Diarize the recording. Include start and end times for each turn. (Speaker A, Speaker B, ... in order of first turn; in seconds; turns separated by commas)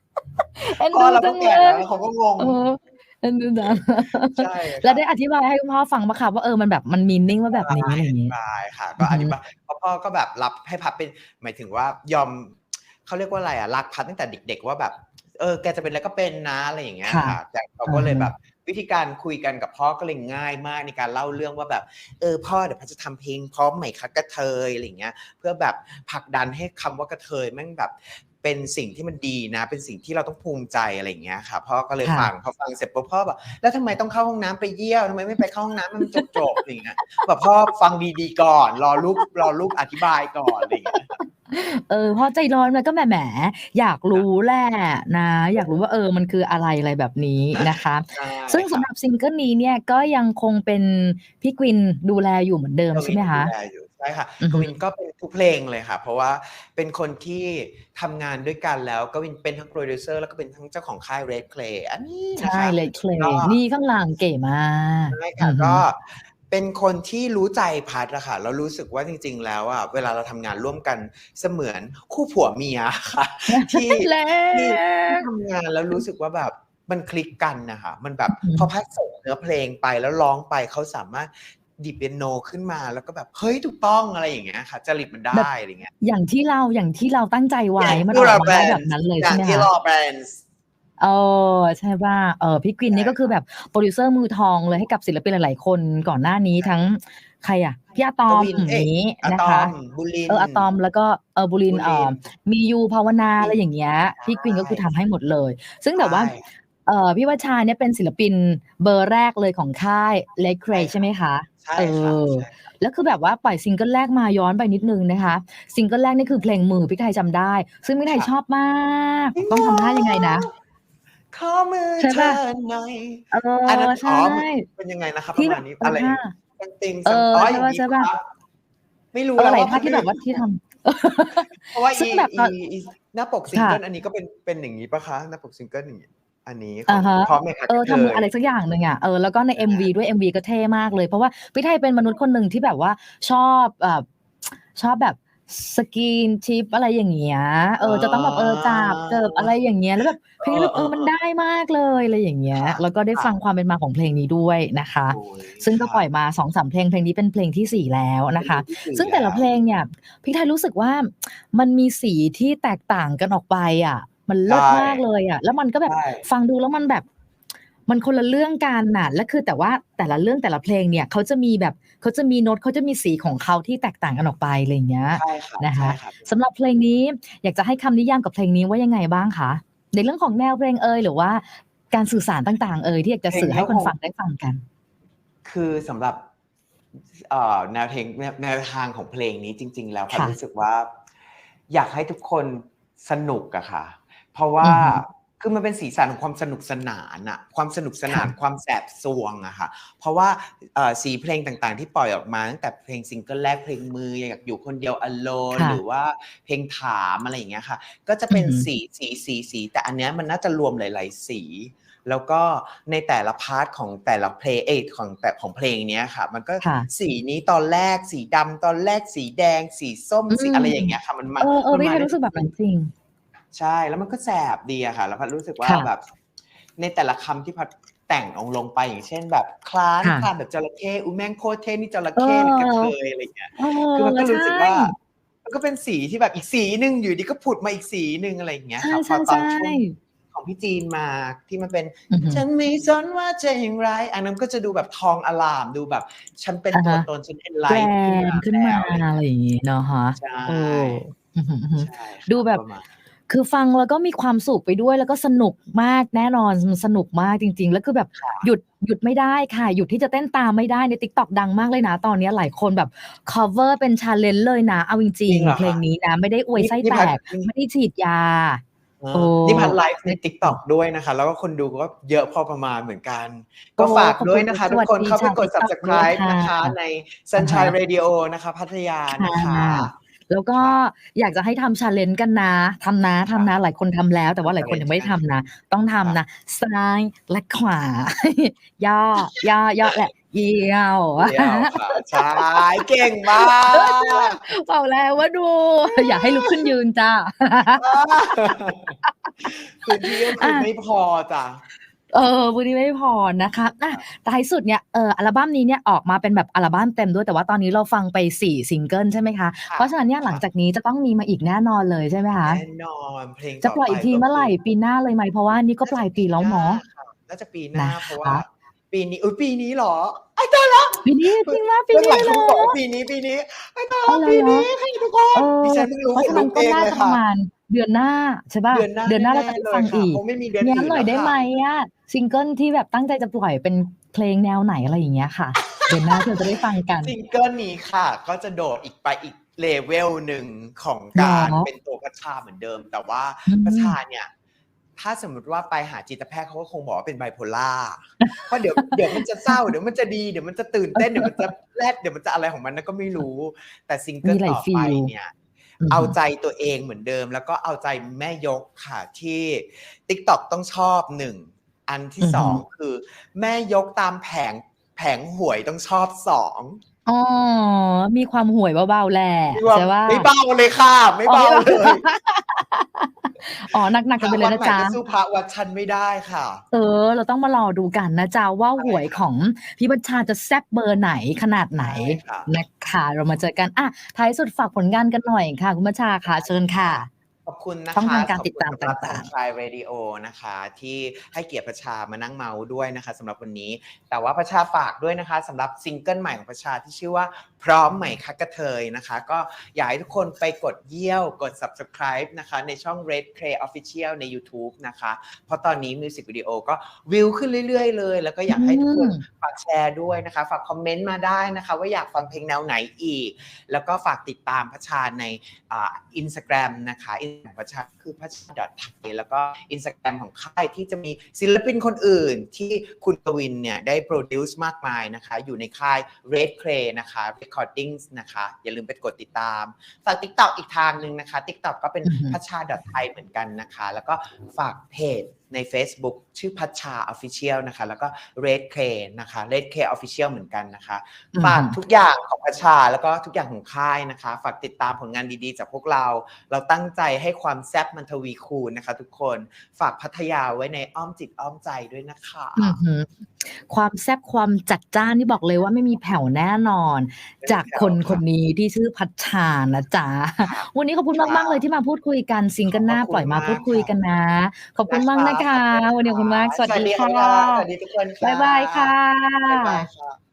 Speaker A: 0.6-1.9, Speaker B: 0.7-2.6, Speaker A: 2.4-8.3, Speaker B: 3.6-5.0, Speaker B: 7.5-41.2, Speaker A: 9.0-9.4, Speaker A: 17.1-18.3, Speaker A: 32.0-32.3, Speaker A: 40.5-53.5, Speaker B: 47.6-48.9, Speaker B: 52.9-63.6, Speaker A: 54.4-54.7, Speaker A: 62.4-65.8, Speaker B: 65.1-85.9, Speaker A: 73.5-75.3, Speaker A: 78.3-78.7, Speaker A: 85.3-89.7, Speaker B: 87.8-90.4, Speaker A: 91.0-99.7, Speaker B: 92.9-93.4, Speaker B: 96.6-96.9, Speaker B: 98.3-100.7, Speaker A: 100.3-106.3, Speaker B: 101.7-102.2, Speaker B: 103.4-104.9, Speaker B: 106.0-106.5, Speaker A: 106.9-120.5, Speaker B: 110.7-111.1, Speaker B: 111.6-112.5, Speaker B: 119.3-120.5, Speaker B: 121.3-128.2, Speaker A: 122.0-122.4, Speaker A: 123.3-124.7, Speaker A: 125.3-126.3, Speaker A: 127.0-128.1, Speaker B: 129.1-130.4, Speaker A: 129.4-132.5, Speaker B: 131.3-138.3, Speaker A: 133.5-133.8, Speaker A: 136.9-144.1, Speaker B: 139.6-139.9, Speaker A: 144.7-167.1, Speaker B: 147.8-151.1, Speaker B: 152.5-153.3, Speaker B: 155.1-156.1, Speaker B: 158.4-159.5, Speaker B: 164.4-165.0, Speaker B: 165.9-166.3, Speaker A: 167.9-184.6, Speaker B: 175.1-176.4, Speaker B: 183.3-183.9, Speaker B: 185.4-186.2, Speaker B: 187.1-190.9, Speaker A: 190.1-190.4, Speaker B: 191.7-222.1, Speaker A: 194.6-195.0, Speaker A: 205.5-205.8, Speaker A: 208.3-208.7, Speaker A: 216.6-216.9, Speaker A: 220.3-222.9, Speaker B: 223.5-226.0, Speaker A: 225.6-225.9, Speaker B: 226.8-249.1, Speaker A: 230.0-230.3, Speaker A: 232.2-232.9, Speaker A: 233.6-234.9, Speaker A: 238.8-239.9, Speaker A: 242.1-242.4, Speaker A: 246.7-247.1, Speaker A: 247.7-252.6, Speaker B: 250.2-251.0, Speaker B: 251.8-252.9, Speaker A: 253.3-268.6, Speaker B: 258.1-258.5, Speaker B: 265.3-265.8, Speaker B: 266.6-267.5, Speaker B: 269.0-279.9, Speaker A: 269.1-270.6, Speaker A: 273.8-276.8, Speaker A: 277.4-277.8, Speaker A: 279.1-292.6, Speaker B: 280.6-280.8, Speaker B: 284.4-285.2, Speaker B: 291.2-294.5, Speaker A: 293.4-297.8, Speaker B: 295.9-296.7, Speaker B: 297.8-301.6, Speaker A: 299.1-299.5, Speaker A: 300.1-300.7, Speaker A: 302.1-312.6, Speaker B: 309.7-310.4, Speaker B: 312.4-314.6, Speaker A: 313.6-316.8, Speaker B: 315.5-327.2, Speaker A: 317.8-318.4, Speaker A: 321.0-322.8, Speaker A: 324.1-324.7, Speaker A: 325.3-337.1, Speaker B: 328.7-331.4, Speaker B: 335.8-344.3, Speaker A: 341.1-341.7, Speaker A: 343.5-344.0, Speaker B: 345.0-355.3, Speaker A: 348.2-349.7, Speaker A: 350.9-351.5, Speaker A: 354.2-355.1, Speaker A: 355.8-356.2, Speaker B: 355.9-366.8, Speaker A: 362.2-362.6, Speaker A: 367.1-370.3, Speaker B: 369.5-372.0, Speaker A: 371.3-375.0, Speaker B: 374.2-376.6, Speaker A: 376.7-387.1, Speaker B: 378.8-379.3, Speaker B: 381.8-382.5, Speaker B: 386.2-452.8, Speaker A: 387.9-389.3, Speaker A: 408.5-409.2, Speaker A: 432.0-432.4, Speaker A: 441.4-441.8, Speaker A: 452.6-467.7, Speaker B: 457.4-458.2, Speaker B: 460.4-461.6, Speaker B: 462.7-463.9, Speaker B: 464.9-470.2, Speaker A: 468.2-469.9